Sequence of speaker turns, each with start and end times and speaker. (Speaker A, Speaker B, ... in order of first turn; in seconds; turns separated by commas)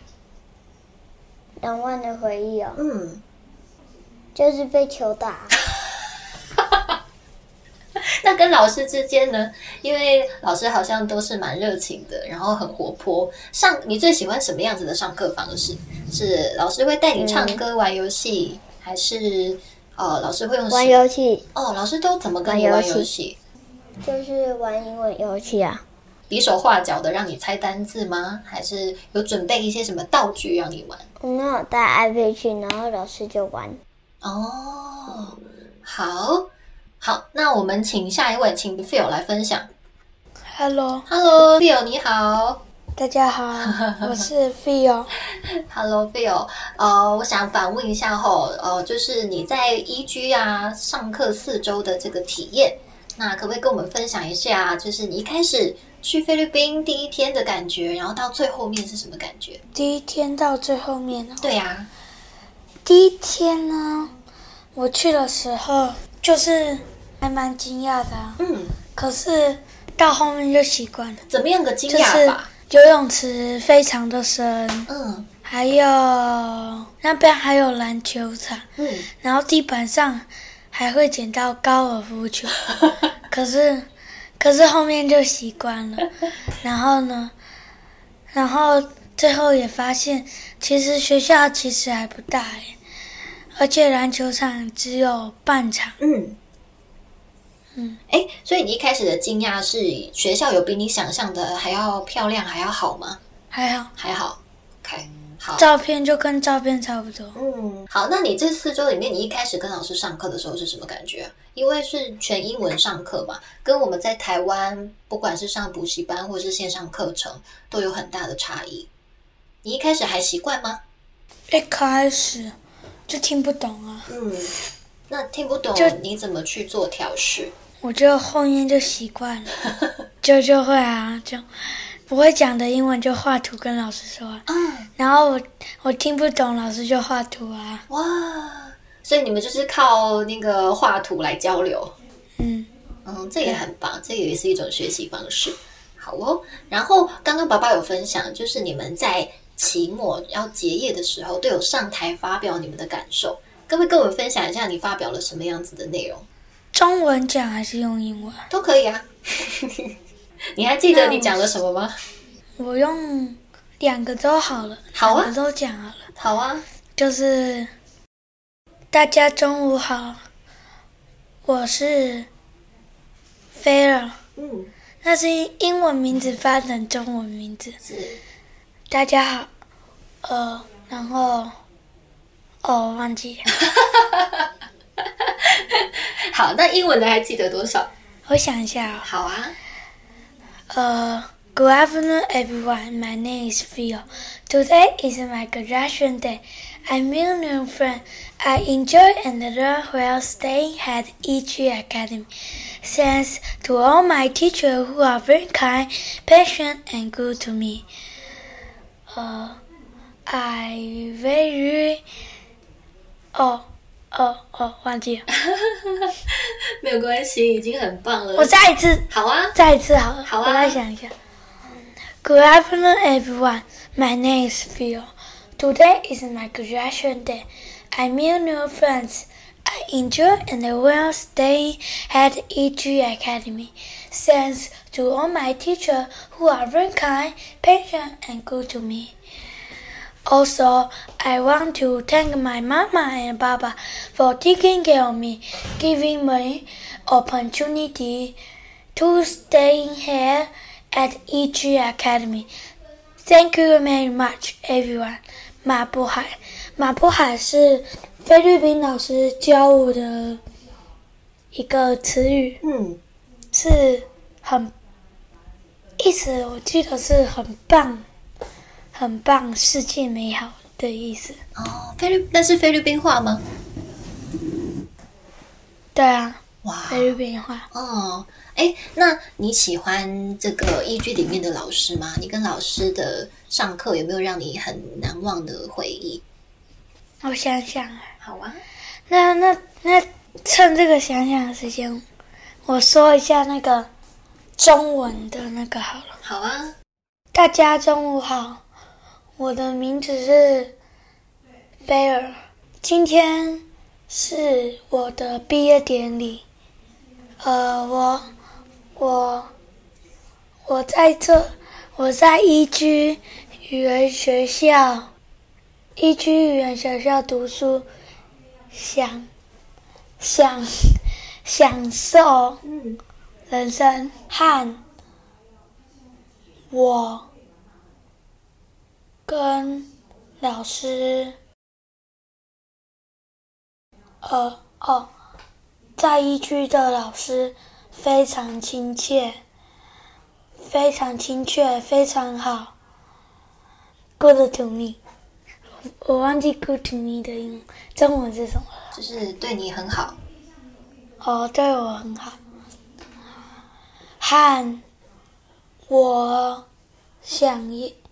Speaker A: 1.6-2.8, Speaker B: 2.8-3.2, Speaker A: 4.3-5.5, Speaker B: 8.0-21.0, Speaker A: 17.2-17.6, Speaker A: 20.7-21.5, Speaker B: 21.6-23.4, Speaker A: 22.4-23.1, Speaker A: 24.0-25.8, Speaker B: 26.3-31.1, Speaker A: 31.2-33.8, Speaker B: 34.2-36.5, Speaker B: 37.0-39.7, Speaker C: 40.5-41.1, Speaker B: 41.1-42.6, Speaker C: 43.0-45.1, Speaker B: 43.6-44.3, Speaker B: 45.7-59.6, Speaker C: 59.8-61.5, Speaker B: 61.4-61.9, Speaker C: 62.9-64.1, Speaker C: 64.7-68.4, Speaker B: 68.4-68.8, Speaker C: 68.9-71.2, Speaker B: 71.3-72.5, Speaker C: 71.9-74.9, Speaker B: 74.9-75.3, Speaker C: 75.5-78.7, Speaker B: 78.8-79.1, Speaker C: 79.2-82.7, Speaker C: 83.3-83.9, Speaker C: 84.4-86.1, Speaker C: 86.6-87.3, Speaker C: 88.3-92.7, Speaker C: 93.6-96.0, Speaker B: 96.0-96.4, Speaker B: 98.1-103.2, Speaker C: 103.5-103.9, Speaker B: 104.0-105.7, Speaker C: 105.6-107.4, Speaker B: 107.4-118.9, Speaker B: 119.6-120.8, Speaker C: 121.5-122.5, Speaker C: 123.1-124.1, Speaker B: 124.1-124.5, Speaker B: 125.1-127.5, Speaker C: 127.8-129.5, Speaker C: 130.2-131.4, Speaker C: 132.1-134.5, Speaker B: 134.5-134.9, Speaker C: 135.0-137.8, Speaker B: 137.9-141.9, Speaker C: 142.4-142.7, Speaker B: 143.1-156.3, Speaker C: 156.7-158.5, Speaker B: 158.5-159.9, Speaker B: 160.6-162.0, Speaker C: 160.9-161.4, Speaker C: 162.6-166.1, Speaker B: 164.9-165.3, Speaker B: 166.2-166.7, Speaker C: 167.0-167.7, Speaker C: 168.9-170.2, Speaker C: 171.4-172.3, Speaker C: 173.6-174.2, Speaker B: 174.4-174.7, Speaker C: 175.0-177.8, Speaker B: 177.8-178.2, Speaker C: 178.9-179.5, Speaker C: 180.2-181.5, Speaker C: 182.6-183.5, Speaker B: 183.6-184.4, Speaker B: 185.3-187.9, Speaker C: 188.3-189.1, Speaker B: 189.0-189.6, Speaker C: 190.7-202.3, Speaker C: 202.8-207.8, Speaker C: 209.1-209.6, Speaker C: 210.3-212.0, Speaker C: 213.3-215.3, Speaker B: 215.3-218.5, Speaker C: 218.4-221.1, Speaker B: 219.1-219.6, Speaker B: 220.3-220.8, Speaker C: 222.2-239.1, Speaker C: 240.3-248.4, Speaker C: 248.9-252.5, Speaker C: 253.2-260.4, Speaker C: 261.5-262.6, Speaker B: 262.6-263.0, Speaker C: 263.5-264.7, Speaker C: 266.0-268.1, Speaker C: 268.9-271.4, Speaker B: 271.6-273.4, Speaker C: 275.9-277.7, Speaker B: 276.6-277.2, Speaker B: 277.7-286.2, Speaker C: 287.2-288.1, Speaker B: 288.2-288.6, Speaker C: 289.1-292.0, Speaker C: 292.6-293.9, Speaker C: 294.6-296.2, Speaker B: 296.2-296.8, Speaker C: 297.3-298.6, Speaker C: 299.4-300.8, Speaker C: 301.9-306.4, Speaker C: 307.4-308.3, Speaker C: 309.0-309.5, Speaker C: 310.7-315.1, Speaker C: 316.0-317.9, Speaker C: 318.7-319.3, Speaker C: 320.2-322.6, Speaker B: 322.6-323.0, Speaker C: 323.5-324.8, Speaker C: 326.7-327.3, Speaker C: 329.3-331.4, Speaker C: 334.2-335.1, Speaker C: 336.0-339.4, Speaker C: 340.6-342.7, Speaker C: 344.2-345.0, Speaker C: 346.0-348.8, Speaker B: 348.9-350.2, Speaker C: 351.2-352.4, Speaker C: 354.2-354.8, Speaker C: 355.9-356.6, Speaker C: 357.2-357.9